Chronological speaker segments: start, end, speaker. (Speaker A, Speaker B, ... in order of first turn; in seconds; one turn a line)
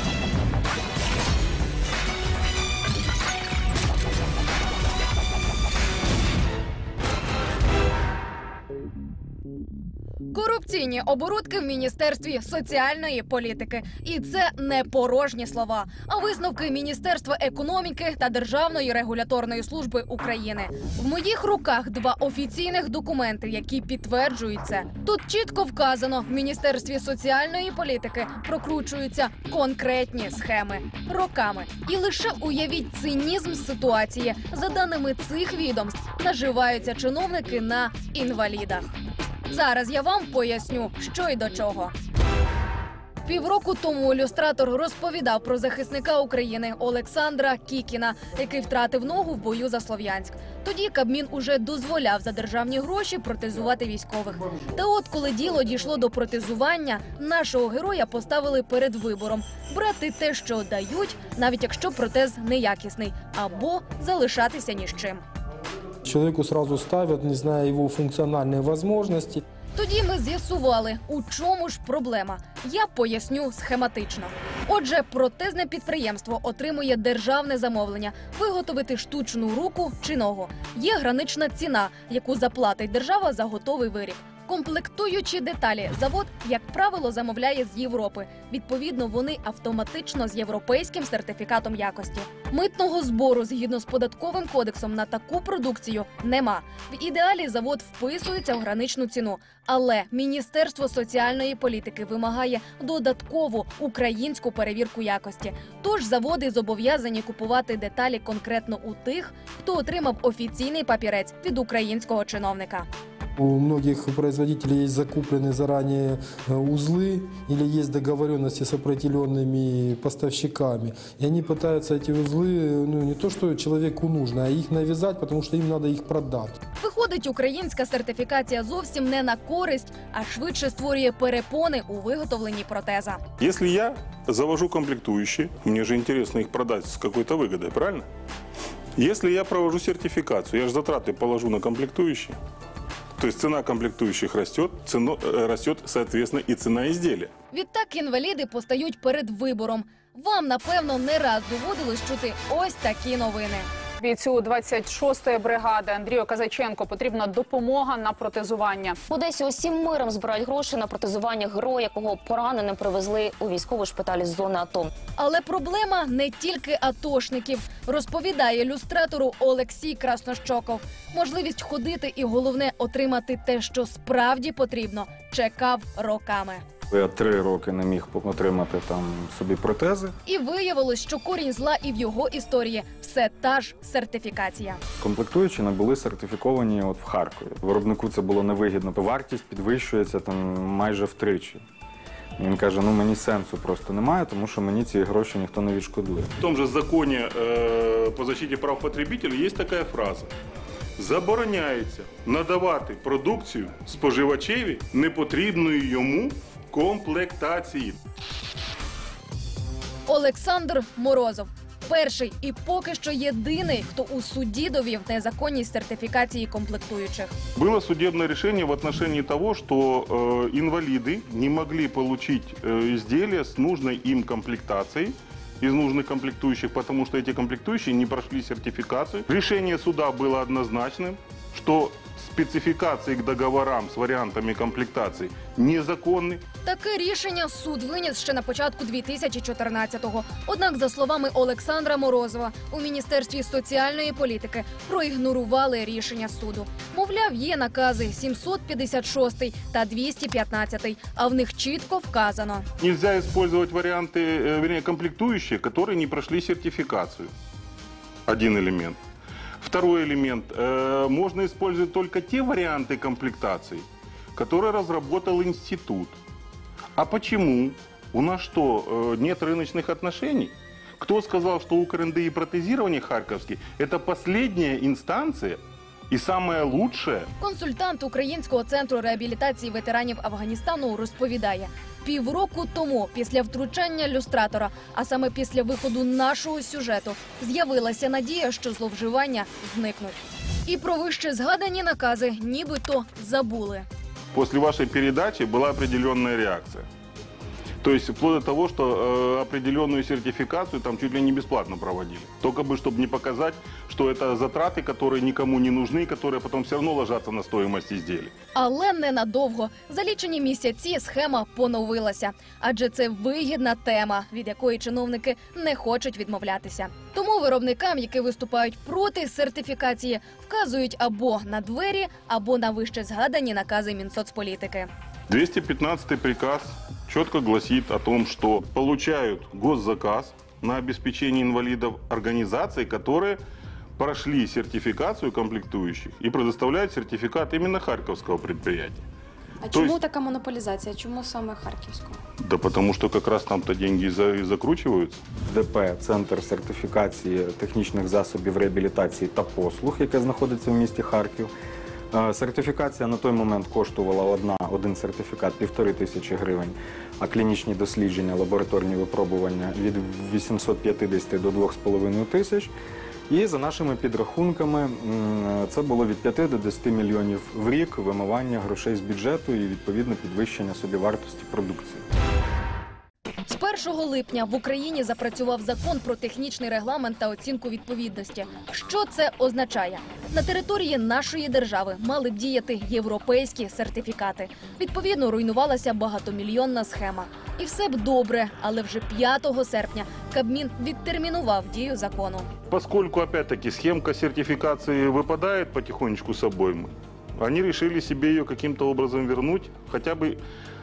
Speaker A: 10.3-38.9
Speaker A: 39.5-41.9
Speaker A: 43.2-65.2
Speaker B: 66.0-69.4
Speaker A: 69.7-112.9
Speaker B: 113.4-126.5
Speaker A: 126.8-133.2
Speaker C: 133.4-138.1
Speaker C: 138.9-142.4
Speaker C: 143.2-147.3
Speaker A: 147.5-153.7
Speaker D: 154.0-158.9
Speaker E: 159.1-164.9
Speaker A: 165.2-176.6
Speaker F: 176.9-180.1
Speaker A: 180.2-184.8
Speaker F: 185.0-191.6
Speaker F: 192.4-196.3
Speaker C: 196.4-200.3
Speaker C: 201.0-208.0
Speaker A: 210.1-217.3
Speaker C: 217.5-236.4
Speaker A: 236.6-252.7
Speaker C: 252.8-257.3
Speaker C: 258.3-259.0
Speaker C: 259.6-266.2
Speaker C: 267.0-277.3
Speaker A: 277.4-293.9
Speaker C: 294.3-296.9
Speaker C: 297.8-308.3
Speaker A: 308.5-324.9
Speaker C: 325.3-333.4
Speaker C: 334.0-339.0
Speaker G: 339.6-342.2
Speaker C: 339.7-340.0
Speaker C: 342.4-345.2
Speaker F: 345.4-351.5
Speaker F: 352.1-362.7
Speaker F: 363.3-372.0
Speaker A: 373.5-392.5
Speaker C: 392.7-400.4